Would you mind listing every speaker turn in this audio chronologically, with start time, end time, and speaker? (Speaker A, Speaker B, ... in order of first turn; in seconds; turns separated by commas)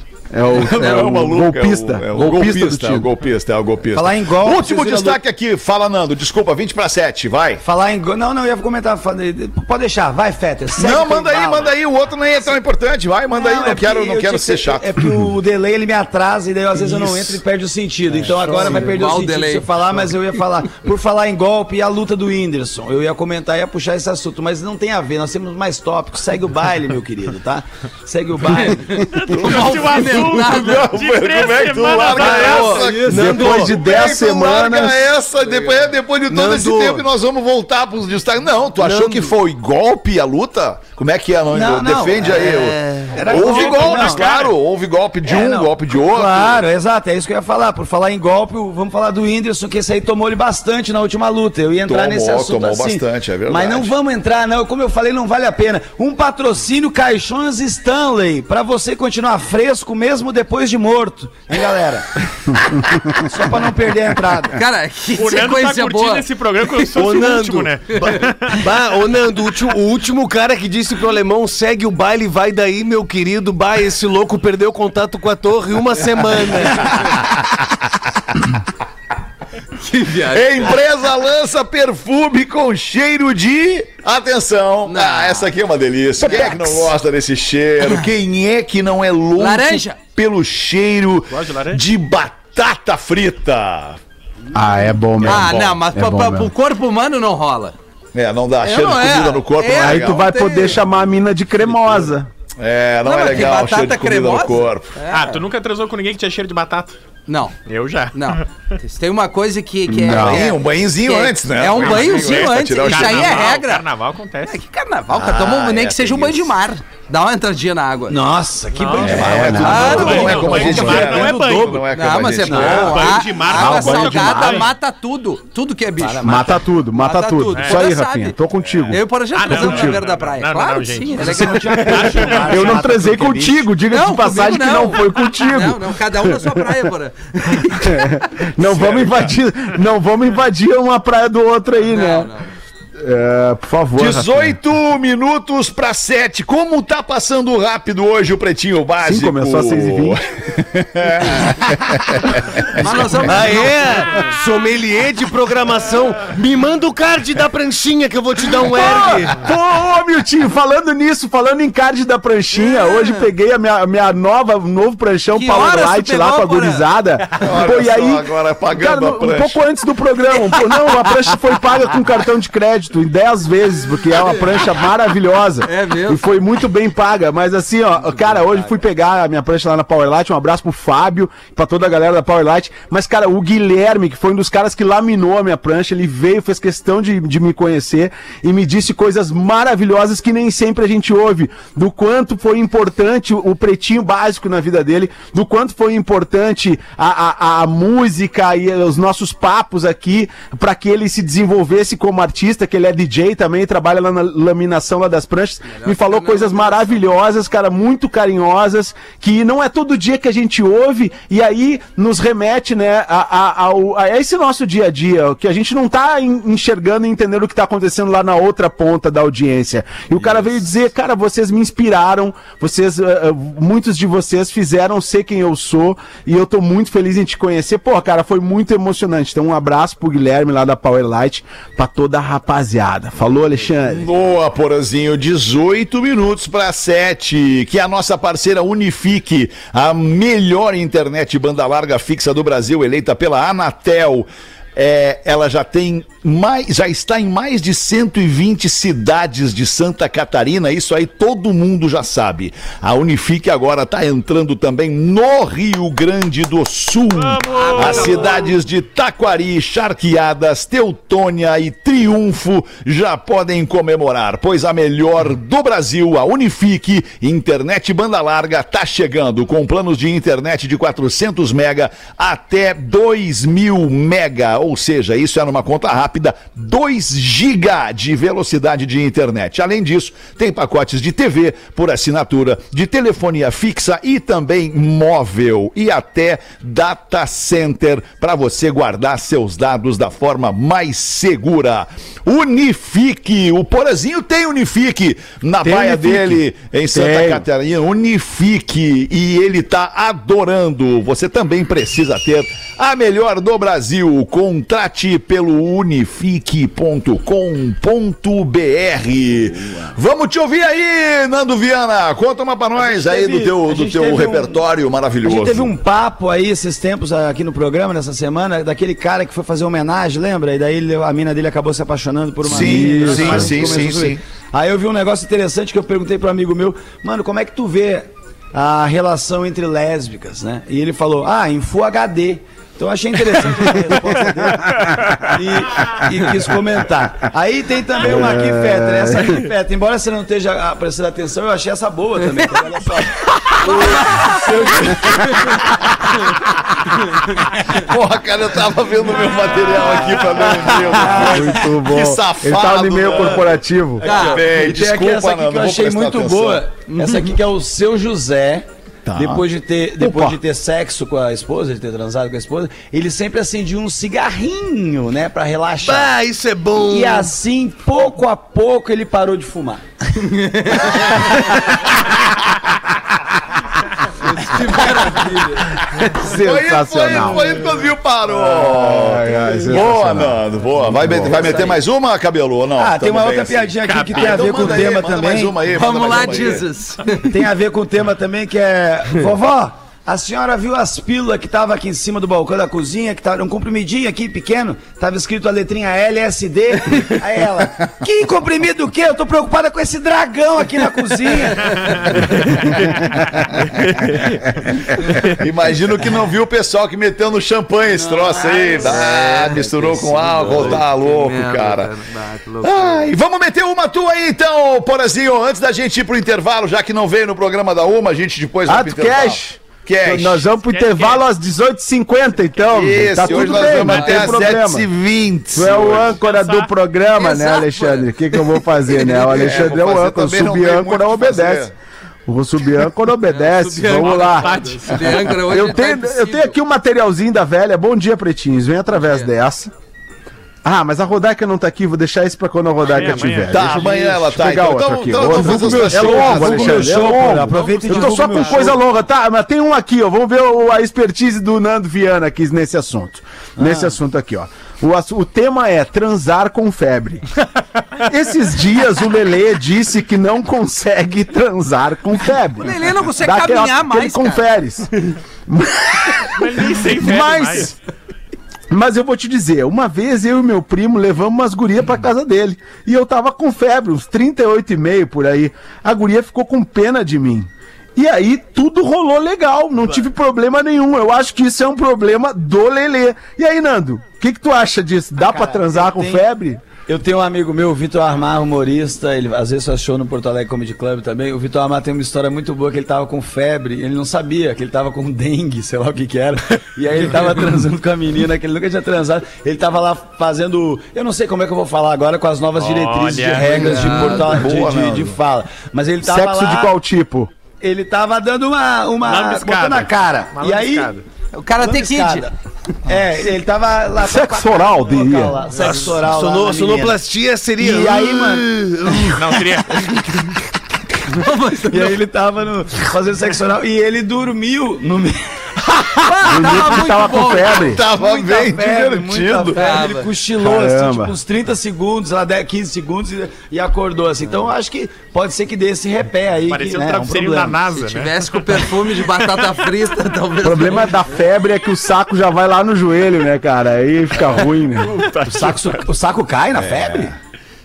Speaker A: 0.3-3.1, Speaker B: 0.5-7.6, Speaker C: 3.9-5.2, Speaker C: 7.6-11.7, Speaker B: 10.8-15.0, Speaker C: 13.3-29.1, Speaker B: 17.0-17.4, Speaker B: 18.5-18.8, Speaker D: 18.6-19.6, Speaker D: 28.5-30.9, Speaker E: 29.1-32.9, Speaker B: 29.4-46.7, Speaker F: 32.2-33.7, Speaker D: 32.4-32.9, Speaker A: 33.1-35.1, Speaker F: 36.3-37.0, Speaker F: 38.8-39.3, Speaker C: 41.5-44.4, Speaker E: 43.3-44.5, Speaker C: 45.2-64.6, Speaker B: 51.9-53.9, Speaker D: 64.5-66.2, Speaker E: 65.2-68.7, Speaker F: 67.0-76.9, Speaker B: 76.6-77.5, Speaker D: 79.8-80.8, Speaker B: 80.2-94.0, Speaker D: 84.9-85.5, Speaker D: 86.2-86.8, Speaker D: 89.4-90.0, Speaker E: 91.3-91.8, Speaker A: 94.5-96.5, Speaker B: 95.2-95.8, Speaker D: 95.2-97.7, Speaker B: 98.1-100.3, Speaker D: 98.6-100.8, Speaker A: 99.7-102.3, Speaker B: 102.6-104.9, Speaker D: 103.0-105.4, Speaker E: 105.1-107.0, Speaker D: 107.3-107.5, Speaker E: 107.6-108.5, Speaker D: 108.1-113.8, Speaker A: 109.9-110.4, Speaker B: 110.1-113.5, Speaker E: 111.8-114.6, Speaker D: 114.5-118.2, Speaker B: 115.1-116.5, Speaker C: 118.1-121.8, Speaker E: 118.7-121.9, Speaker B: 119.0-123.0, Speaker D: 119.6-121.0, Speaker D: 121.9-128.3, Speaker C: 122.5-123.2, Speaker E: 122.6-124.7, Speaker A: 123.5-124.7, Speaker C: 126.0-126.5, Speaker A: 126.2-129.0, Speaker E: 127.5-127.8, Speaker D: 128.9-132.1, Speaker E: 129.3-132.8, Speaker C: 129.5-129.8, Speaker C: 131.1-133.7, Speaker A: 131.2-136.4, Speaker D: 133.9-138.1, Speaker A: 137.8-142.3, Speaker B: 138.6-139.4, Speaker D: 141.9-142.5, Speaker A: 143.0-144.6, Speaker B: 144.0-153.6, Speaker A: 149.0-150.2, Speaker D: 152.8-154.1, Speaker F: 153.3-159.4, Speaker A: 158.7-234.1, Speaker D: 165.3-166.9, Speaker B: 167.4-169.6, Speaker D: 175.6-176.4, Speaker D: 205.7-207.0, Speaker B: 233.9-315.7, Speaker E: 257.1-258.5, Speaker D: 257.5-258.5, Speaker A: 295.6-297.5, Speaker C: 309.5-309.9, Speaker C: 312.8-314.6, Speaker C: 315.2-344.3, Speaker A: 322.4-323.8, Speaker B: 322.4-324.2, Speaker A: 334.6-335.1, Speaker A: 338.0-339.4, Speaker D: 343.6-345.4, Speaker B: 343.7-345.9, Speaker B: 347.5-356.6, Speaker C: 350.0-350.5, Speaker A: 350.7-354.1, Speaker C: 351.0-351.5, Speaker C: 354.0-366.1, Speaker D: 354.0-354.4, Speaker B: 359.1-359.4, Speaker A: 360.0-360.4, Speaker F: 365.8-367.3, Speaker C: 366.8-369.9, Speaker D: 370.4-371.1, Speaker C: 370.7-371.7, Speaker D: 374.2-376.2, Speaker C: 374.7-375.0, Speaker A: 376.2-377.5, Speaker B: 376.4-386.7, Speaker A: 378.3-381.4, Speaker C: 381.3-381.8, Speaker C: 382.8-385.6, Speaker E: 383.9-384.4, Speaker D: 385.7-387.3, Speaker C: 386.1-386.4, Speaker C: 387.2-402.7, Speaker E: 402.6-403.0, Speaker B: 404.9-411.9, Speaker C: 407.9-410.9, Speaker D: 410.6-413.1, Speaker B: 412.6-420.5, Speaker A: 418.7-424.9, Speaker E: 420.7-421.2, Speaker B: 422.6-426.2, Speaker D: 423.2-424.3, Speaker A: 425.5-431.7, Speaker E: 426.2-426.7, Speaker D: 427.1-428.1, Speaker B: 429.1-431.7, Speaker A: 432.2-439.7, Speaker D: 433.3-436.5, Speaker E: 433.9-435.3, Speaker D: 438.9-439.3, Speaker A: 440.6-457.2, Speaker E: 442.9-443.6, Speaker B: 443.5-447.1, Speaker C: 445.3-448.7, Speaker D: 447.5-448.8, Speaker C: 453.6-453.9, Speaker A: 458.0-467.8, Speaker D: 462.6-464.4, Speaker E: 466.4-467.7, Speaker A: 468.7-486.6, Speaker C: 485.2-486.2, Speaker C: 486.9-506.7, Speaker E: 502.6-504.4, Speaker B: 503.5-505.2, Speaker D: 503.9-504.2, Speaker A: 506.0-507.3, Speaker C: 507.6-510.9, Speaker E: 509.0-511.0, Speaker D: 511.3-512.3, Speaker C: 511.6-512.3, Speaker C: 512.9-517.0, Speaker A: 514.0-515.4, Speaker F: 515.5-519.4, Speaker C: 517.6-519.1, Speaker E: 519.1-520.2, Speaker D: 521.1-522.0, Speaker C: 521.7-525.2, Speaker D: 526.0-527.7, Speaker A: 526.2-527.8, Speaker B: 527.6-529.7, Speaker C: 527.8-537.6, Speaker D: 529.5-530.1, Speaker A: 530.4-531.1, Speaker E: 536.5-539.5, Speaker D: 537.8-541.0, Speaker A: 540.4-545.0, Speaker E: 544.8-545.8, Speaker C: 545.3-547.1, Speaker B: 546.5-547.1